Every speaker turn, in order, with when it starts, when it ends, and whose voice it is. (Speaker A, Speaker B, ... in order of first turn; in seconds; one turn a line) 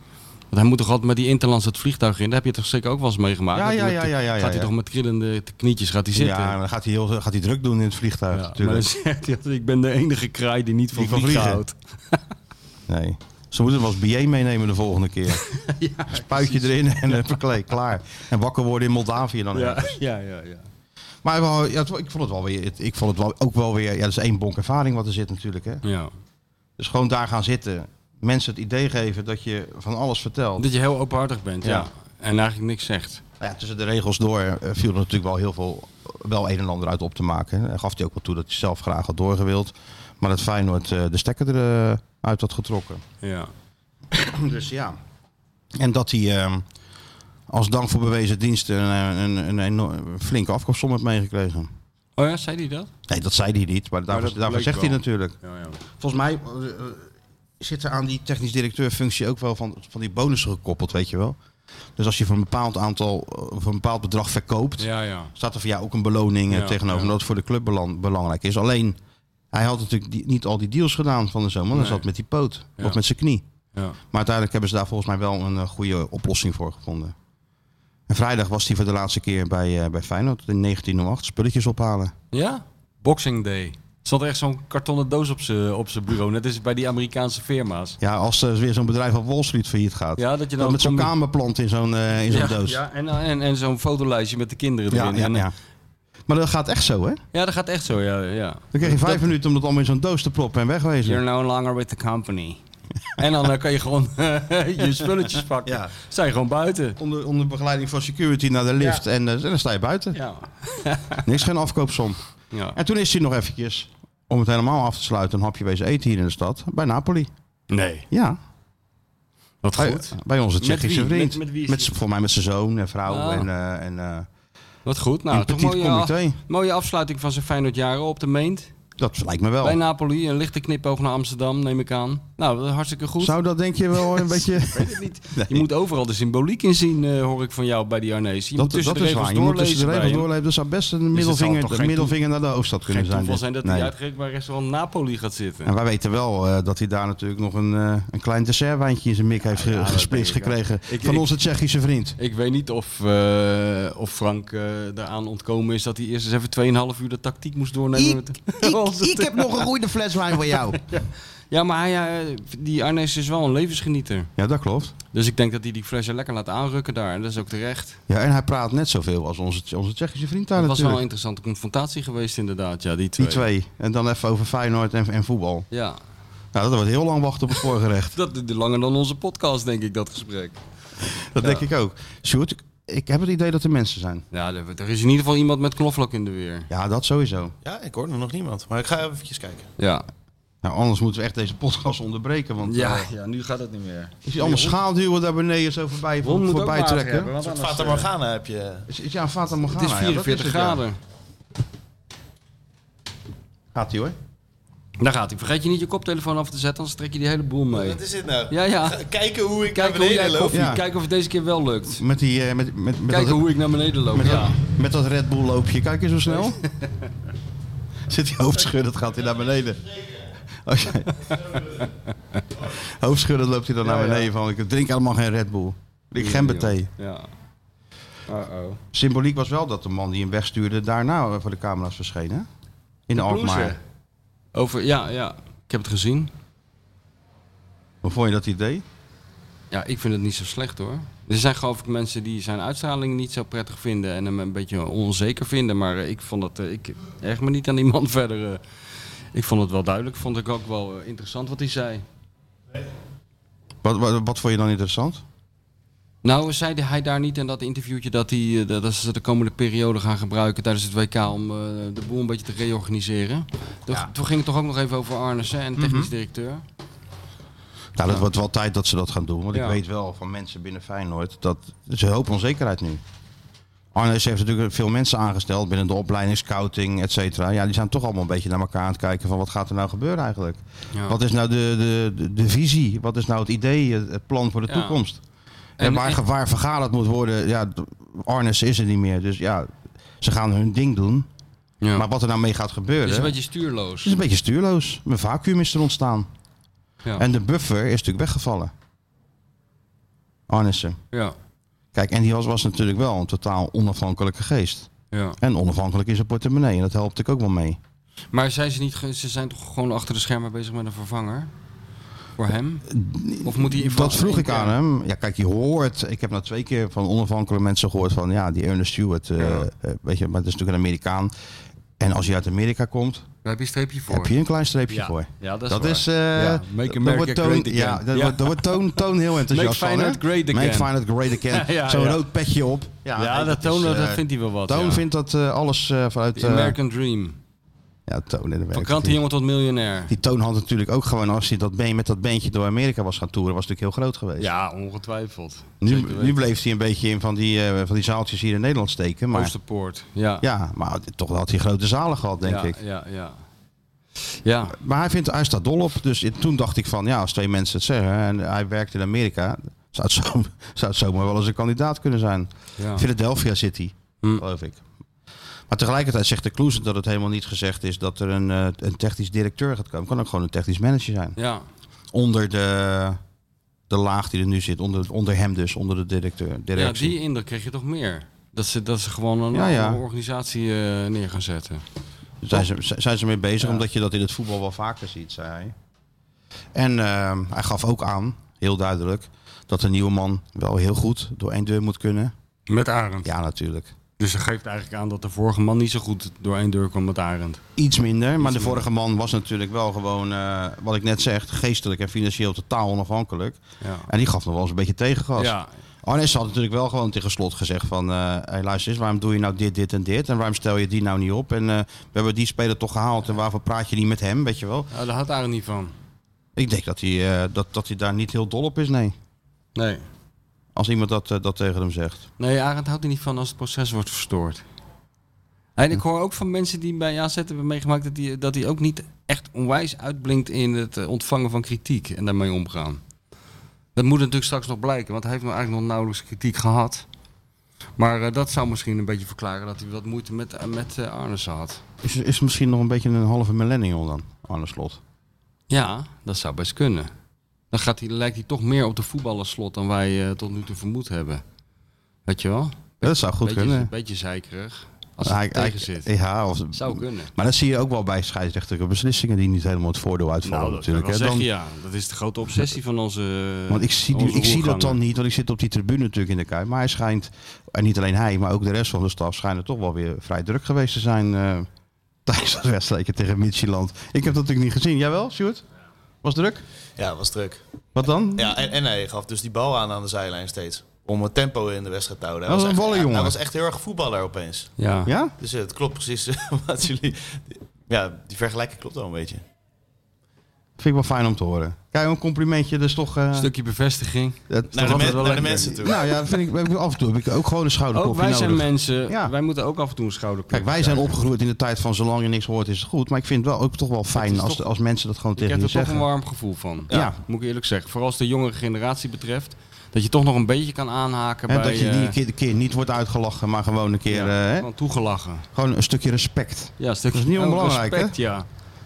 Speaker A: 0.5-6.6
Speaker B: 3.5-4.7
Speaker B: 6.1-8.9
Speaker A: 8.3-12.2
Speaker B: 10.9-11.6
Speaker B: 12.9-15.4
Speaker A: 15.5-17.2
Speaker B: 16.1-20.0
Speaker A: 19.5-20.7
Speaker B: 21.2-25.8
Speaker A: 25.8-26.1
Speaker B: 26.8-30.7
Speaker A: 30.6-33.2
Speaker B: 33.4-43.0
Speaker A: 43.2-43.5
Speaker B: 44.1-45.0
Speaker B: 45.8-46.6
Speaker B: 47.5-51.7
Speaker A: 52.2-52.9
Speaker B: 53.1-55.4
Speaker A: 54.1-55.8
Speaker B: 56.0-57.1
Speaker B: 57.6-61.4
Speaker B: 62.0-69.0
Speaker A: 64.8-65.3
Speaker A: 66.5-67.1
Speaker B: 69.5-73.4
Speaker A: 71.7-72.0
Speaker B: 74.1-77.1
Speaker B: 78.1-82.1
Speaker A: 82.3-88.0
Speaker B: 88.0-92.8
Speaker A: 90.2-91.1
Speaker A: 92.3-95.5
Speaker B: 94.9-95.5
Speaker B: 96.3-97.2
Speaker A: 97.3-99.2
Speaker B: 98.7-101.2
Speaker A: 101.0-102.6
Speaker A: 103.2-107.0
Speaker B: 105.6-105.9
Speaker B: 107.0-110.2
Speaker A: 110.1-111.3
Speaker B: 111.2-112.2
Speaker A: 112.5-112.8
Speaker B: 112.7-117.3
Speaker A: 117.7-118.1
Speaker B: 118.1-118.4
Speaker A: 119.6-121.9
Speaker B: 119.8-124.3
Speaker A: 123.1-123.5
Speaker A: 124.8-128.7
Speaker B: 125.3-126.4
Speaker B: 129.0-129.8
Speaker A: 129.6-133.3
Speaker B: 133.2-135.7
Speaker A: 133.9-140.3
Speaker B: 138.6-143.9
Speaker A: 141.1-142.1
Speaker A: 142.9-145.7
Speaker B: 145.6-152.2
Speaker A: 149.5-151.3
Speaker A: 152.2-159.7
Speaker B: 157.9-160.8
Speaker A: 160.5-164.3
Speaker B: 164.4-164.9
Speaker A: 165.1-168.0
Speaker B: 168.1-171.0
Speaker A: 170.6-173.4
Speaker B: 173.2-175.7
Speaker A: 175.7-176.0
Speaker B: 176.5-178.1
Speaker A: 178.1-180.6
Speaker B: 181.3-184.2
Speaker A: 184.3-186.7
Speaker B: 186.7-187.5
Speaker C: 187.6-189.7
Speaker A: 189.8-190.1
Speaker B: 190.6-193.1
Speaker A: 192.6-194.8
Speaker B: 194.2-197.3
Speaker A: 196.2-198.1
Speaker C: 197.4-198.9
Speaker B: 198.9-200.8
Speaker A: 199.7-201.0
Speaker B: 203.7-204.1
Speaker A: 205.0-209.0
Speaker C: 207.7-210.7
Speaker A: 209.7-212.0
Speaker B: 210.5-210.8
Speaker B: 212.0-213.5
Speaker A: 213.1-214.6
Speaker B: 214.1-216.6
Speaker A: 216.3-216.9
Speaker B: 218.1-221.6
Speaker B: 222.6-226.9
Speaker A: 223.8-224.3
Speaker A: 226.2-227.3
Speaker A: 228.3-228.8
Speaker B: 228.9-232.5
Speaker B: 233.1-233.8
Speaker A: 233.1-233.8
Speaker A: 234.5-236.3
Speaker B: 238.0-238.8
Speaker A: 239.7-248.6
Speaker A: 249.3-252.0
Speaker B: 253.8-255.2
Speaker A: 256.2-266.6
Speaker B: 265.8-266.1
Speaker B: 267.9-273.0
Speaker A: 269.5-269.8
Speaker B: 273.9-285.2
Speaker A: 280.9-281.2
Speaker A: 284.7-285.0
Speaker A: 285.8-286.2
Speaker B: 285.8-291.3
Speaker A: 291.8-292.1
Speaker B: 291.9-293.4
Speaker A: 293.0-294.2
Speaker B: 294.0-296.3
Speaker B: 297.2-298.7
Speaker B: 300.5-301.0
Speaker B: 301.9-304.9
Speaker A: 305.1-305.4
Speaker B: 305.4-307.8
Speaker A: 308.3-311.5
Speaker A: 312.4-312.9
Speaker B: 312.9-321.3
Speaker A: 313.4-314.8
Speaker A: 319.4-319.6
Speaker B: 322.0-323.2
Speaker A: 323.4-324.3
Speaker B: 324.1-336.8
Speaker A: 324.9-332.2
Speaker A: 333.1-335.1
Speaker A: 336.3-337.4
Speaker B: 338.1-339.2
Speaker A: 338.7-340.1
Speaker B: 340.1-344.5
Speaker A: 344.4-346.4
Speaker B: 345.8-349.5
Speaker A: 349.3-350.4
Speaker B: 350.4-352.8
Speaker A: 352.4-353.4
Speaker A: 354.4-354.8
Speaker B: 354.7-364.8
Speaker A: 362.8-363.0
Speaker B: 365.7-371.4
Speaker A: 371.4-371.6
Speaker B: 372.1-373.2
Speaker B: 373.9-377.1
Speaker A: 376.7-381.8
Speaker B: 379.5-380.0
Speaker B: 382.4-385.7
Speaker B: 386.7-392.3
Speaker A: 392.7-393.3
Speaker B: 393.2-393.9
Speaker A: 394.2-397.6
Speaker B: 397.8-414.9
Speaker A: 398.4-398.8
Speaker A: 403.8-404.1
Speaker A: 405.4-405.7
Speaker A: 414.9-415.9
Speaker B: 416.6-419.1
Speaker A: 419.8-420.0
Speaker B: 420.7-422.2
Speaker A: 422.4-424.6
Speaker A: 425.8-433.0
Speaker A: 433.9-437.1
Speaker A: 438.0-441.8
Speaker B: 442.0-445.0
Speaker A: 445.7-447.1
Speaker A: 447.7-451.4
Speaker A: 452.3-456.1
Speaker B: 453.0-453.9
Speaker B: 455.2-461.5
Speaker A: 456.7-457.3
Speaker A: 460.4-465.0
Speaker B: 463.7-471.7
Speaker B: 472.2-475.6
Speaker B: 476.2-476.6
Speaker C: 477.0-477.6
Speaker B: 477.9-478.5
Speaker C: 478.3-484.7
Speaker B: 482.5-483.4
Speaker A: 484.8-485.1
Speaker B: 485.1-485.3
Speaker C: 485.4-489.4
Speaker B: 490.8-493.5
Speaker A: 493.3-495.7
Speaker B: 494.5-499.3
Speaker C: 494.7-496.0
Speaker A: 497.9-501.1
Speaker B: 500.5-506.1
Speaker A: 504.1-504.6
Speaker A: 505.4-512.1
Speaker B: 506.9-507.1
Speaker B: 511.5-514.7
Speaker A: 514.1-515.5
Speaker B: 515.5-518.1
Speaker A: 516.8-518.5